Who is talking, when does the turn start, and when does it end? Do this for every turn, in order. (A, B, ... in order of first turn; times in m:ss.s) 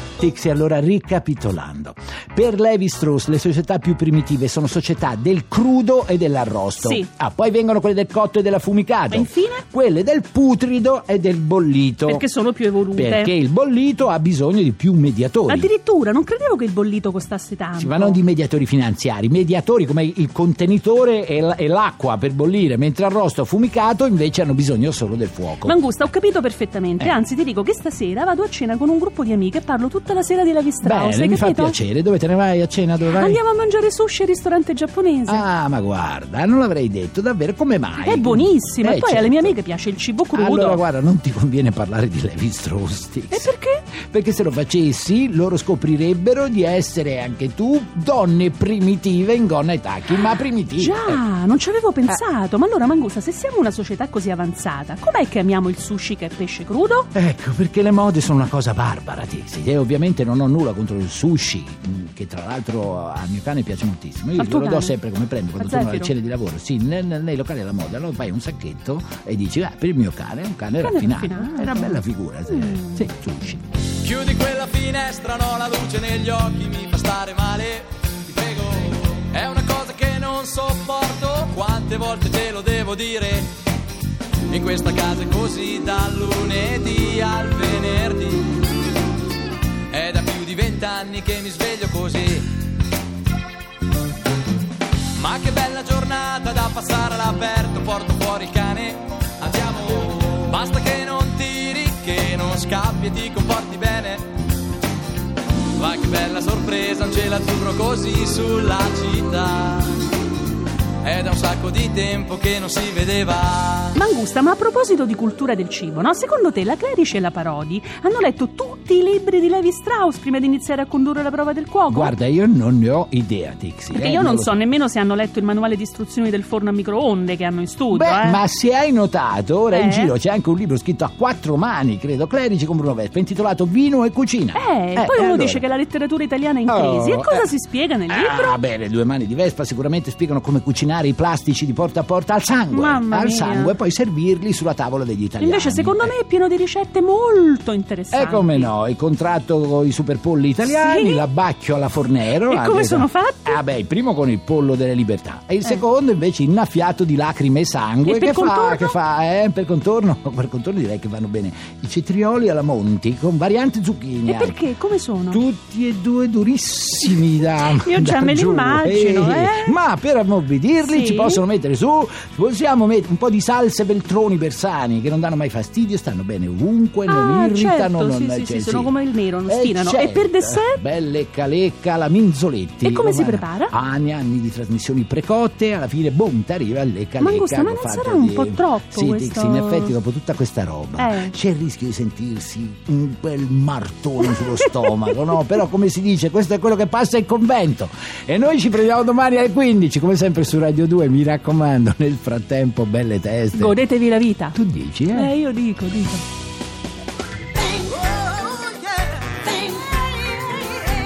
0:00.2-0:12.3 A
0:06.8-0:07.1 B
0:09.1-0:09.6 B
0:12.1-0:13.3 B
0:12.9-0:15.7 A
0:15.5-0:18.2 B
0:17.8-0:26.1 A
0:25.6-0:31.8 B
0:30.8-0:33.4 A
0:33.1-0:35.4 B
0:35.3-0:39.6 A
0:38.0-0:40.8 B
0:40.3-0:51.2 A
0:43.3-0:43.8 B
0:50.8-0:57.1 B
0:57.2-1:13.7 A
1:04.4-1:05.0 B
1:05.6-1:06.1 B
1:10.8-1:13.0 B
1:14.0-1:23.5 C
1:24.5-1:28.6 C
1:29.9-1:32.5 C
1:35.2-1:44.3 C
1:45.8-1:50.1 C
1:51.0-1:54.0 C
1:54.0-2:02.1 B
2:01.9-2:04.6 A
2:03.9-2:08.4 B
2:07.9-2:15.7 A
2:09.7-2:10.1 B
2:14.5-2:18.6 B
2:16.7-2:17.5 A
2:18.1-2:26.2 A
2:22.7-2:23.7 B
2:25.4-2:28.7 B
2:28.1-2:44.6 A
2:30.6-2:31.2 B
2:32.5-2:33.6 B
2:38.0-2:39.0 B
2:44.3-2:45.4 B
2:45.3-2:58.9 A
2:47.6-2:49.8 B
2:50.8-2:51.4 B
2:57.1-3:00.8 B
2:59.5-3:23.8 A
3:02.8-3:03.7 B
3:07.2-3:10.0 B
3:11.0-3:11.4 B
3:23.5-3:24.6 B
3:24.5-3:25.3 A
3:25.1-3:26.2 B